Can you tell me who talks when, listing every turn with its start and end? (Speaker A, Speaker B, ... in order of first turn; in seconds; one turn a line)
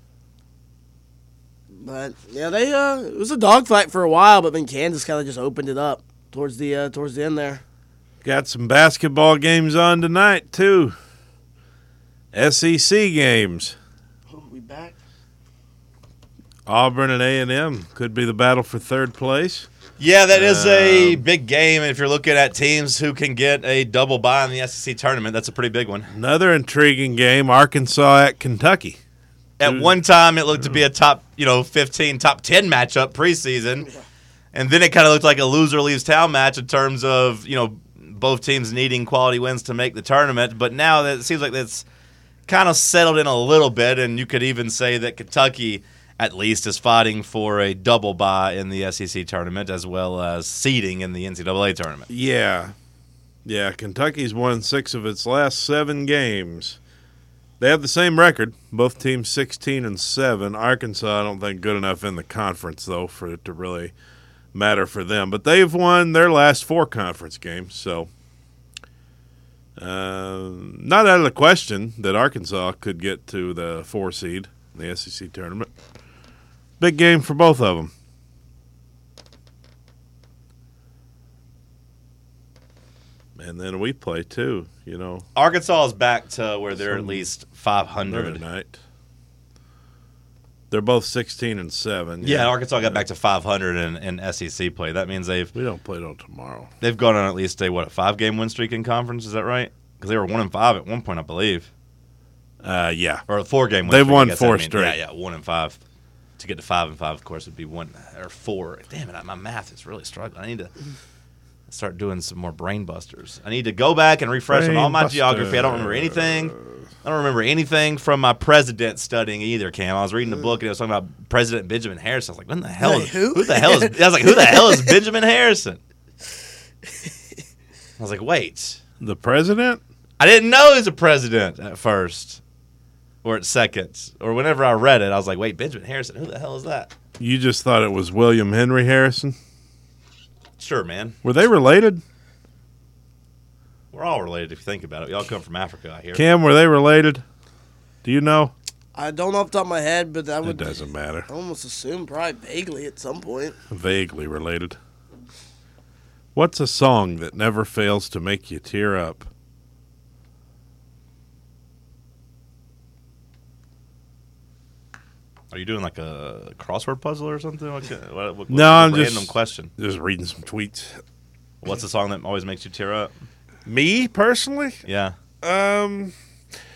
Speaker A: 1.8-7.6
Speaker B: 8.2-10.9
Speaker B: 12.3-13.8
Speaker A: 14.3-14.9
Speaker B: 16.6-19.7
Speaker C: 20.0-26.1
Speaker B: 20.3-21.2
Speaker B: 26.1-29.0
Speaker C: 29.6-33.9
Speaker B: 29.6-29.9
Speaker B: 30.5-30.8
Speaker C: 34.5-41.8
Speaker C: 42.5-52.1
Speaker B: 52.1-52.7
Speaker B: 53.4-56.8
Speaker B: 57.6-63.9
Speaker B: 64.5-68.1
Speaker B: 69.8-75.7
Speaker B: 76.8-77.9
Speaker B: 83.3-85.2
Speaker C: 85.3-88.4
Speaker B: 86.8-87.2
Speaker B: 88.0-88.8
Speaker B: 90.7-93.0
Speaker C: 92.2-95.5
Speaker B: 95.5-96.7
Speaker C: 96.8-101.7
Speaker B: 102.6-103.2
Speaker C: 103.3-105.8
Speaker B: 103.8-105.0
Speaker C: 106.4-110.7
Speaker C: 111.7-125.8
Speaker B: 114.5-116.8
Speaker A: 122.8-124.9
Speaker C: 128.0-128.8
Speaker B: 129.0-129.8
Speaker C: 130.2-132.4
Speaker C: 133.2-136.9
Speaker B: 137.2-139.3
Speaker C: 140.6-141.2
Speaker B: 141.2-142.0
Speaker C: 143.9-146.3
Speaker B: 146.1-147.2
Speaker B: 148.0-148.5
Speaker A: 148.9-153.6
Speaker B: 150.4-151.3
Speaker B: 153.7-154.8
Speaker B: 156.3-159.3
Speaker C: 165.5-169.7
Speaker B: 168.5-171.0
Speaker C: 171.6-173.1
Speaker B: 173.7-174.8
Speaker C: 174.8-175.2
Speaker B: 175.4-176.1